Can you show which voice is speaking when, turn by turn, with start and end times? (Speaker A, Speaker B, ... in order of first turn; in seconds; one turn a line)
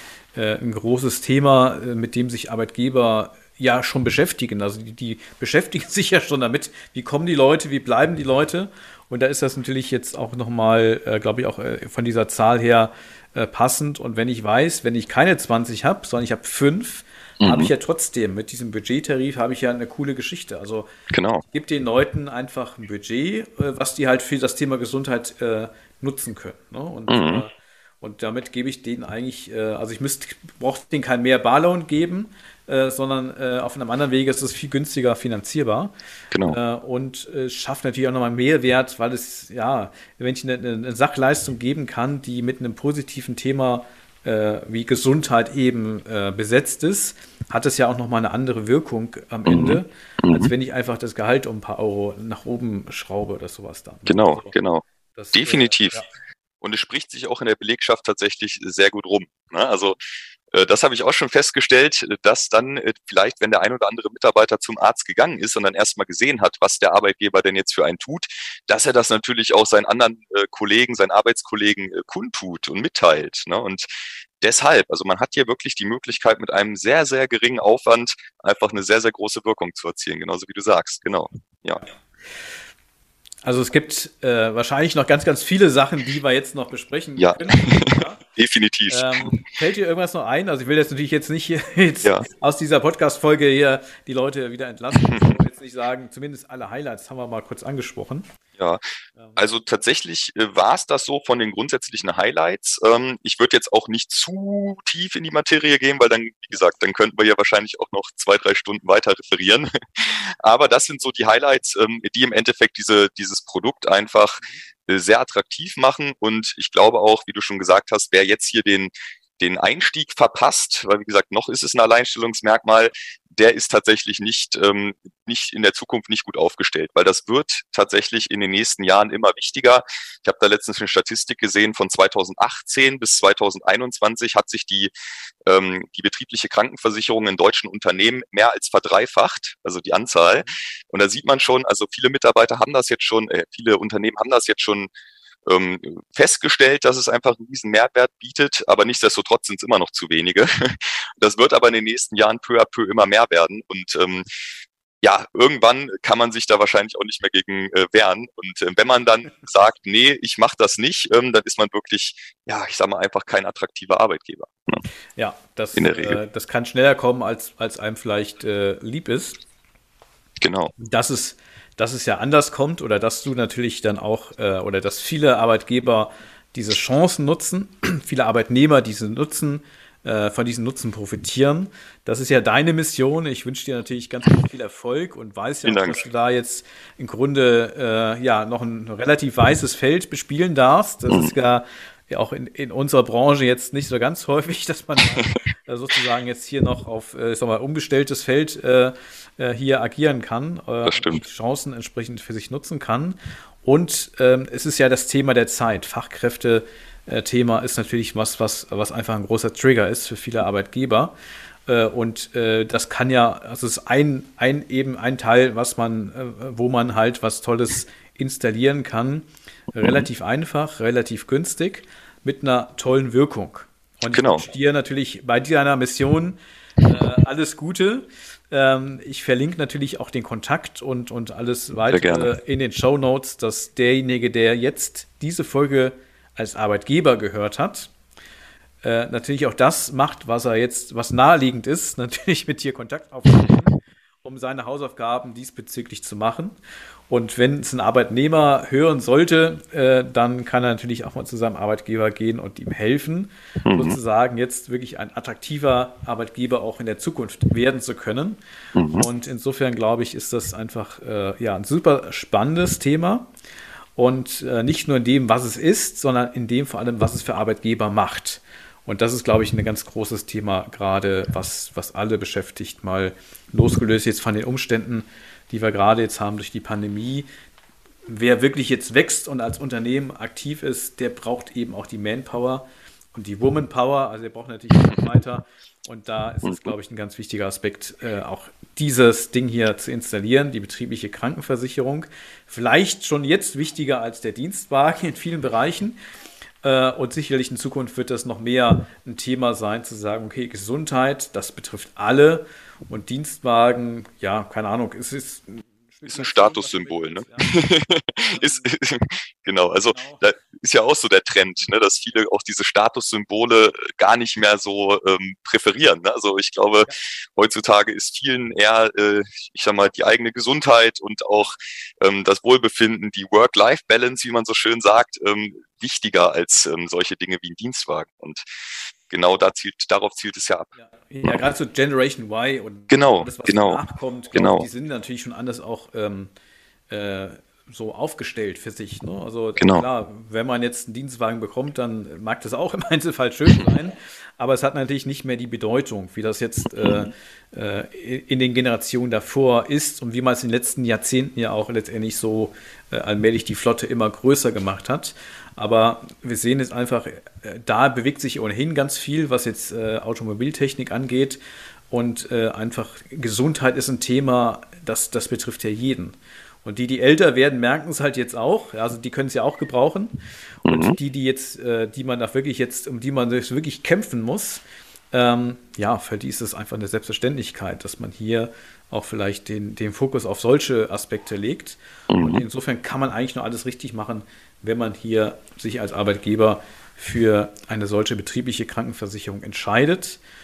Speaker A: 0.3-20.9
Speaker B: 17.4-17.7
Speaker B: 21.1-21.4
Speaker A: 21.4-35.9
Speaker B: 27.1-27.4
Speaker B: 36.3-36.6
Speaker A: 36.5-54.5
Speaker B: 49.5-50.5
Speaker B: 54.0-56.0
Speaker A: 55.1-56.1
Speaker B: 56.6-60.0
Speaker B: 60.5-73.9
Speaker B: 74.4-81.8
Speaker A: 83.4-88.2
Speaker B: 87.2-89.4
Speaker A: 88.9-98.3
Speaker B: 94.9-95.4
Speaker B: 98.6-98.8
Speaker B: 99.3-134.9
Speaker B: 135.4-144.9
Speaker B: 145.4-154.2
Speaker B: 155.0-164.8
Speaker A: 165.2-169.4
Speaker B: 165.7-166.2
Speaker B: 170.4-170.7
Speaker A: 170.8-211.1
Speaker B: 185.6-186.0
Speaker B: 191.1-191.3
Speaker B: 200.8-201.2
Speaker A: 211.7-237.9
Speaker B: 224.1-224.4
Speaker B: 231.9-232.3
Speaker A: 238.8-246.6
Speaker A: 247.1-258.4
Speaker B: 253.6-254.0
Speaker B: 258.7-259.1
Speaker A: 258.9-263.3
Speaker A: 263.9-277.3
Speaker A: 278.1-296.0
Speaker B: 286.4-286.7
Speaker A: 296.6-307.6
Speaker B: 306.1-328.4
Speaker A: 308.3-308.7
Speaker A: 309.9-310.2
Speaker B: 329.1-330.7
Speaker A: 330.8-336.3
Speaker B: 332.9-333.8
Speaker B: 334.3-334.6
Speaker A: 336.9-390.2
Speaker B: 339.6-339.9
Speaker B: 346.8-347.1
Speaker B: 370.6-371.0
Speaker B: 382.1-382.4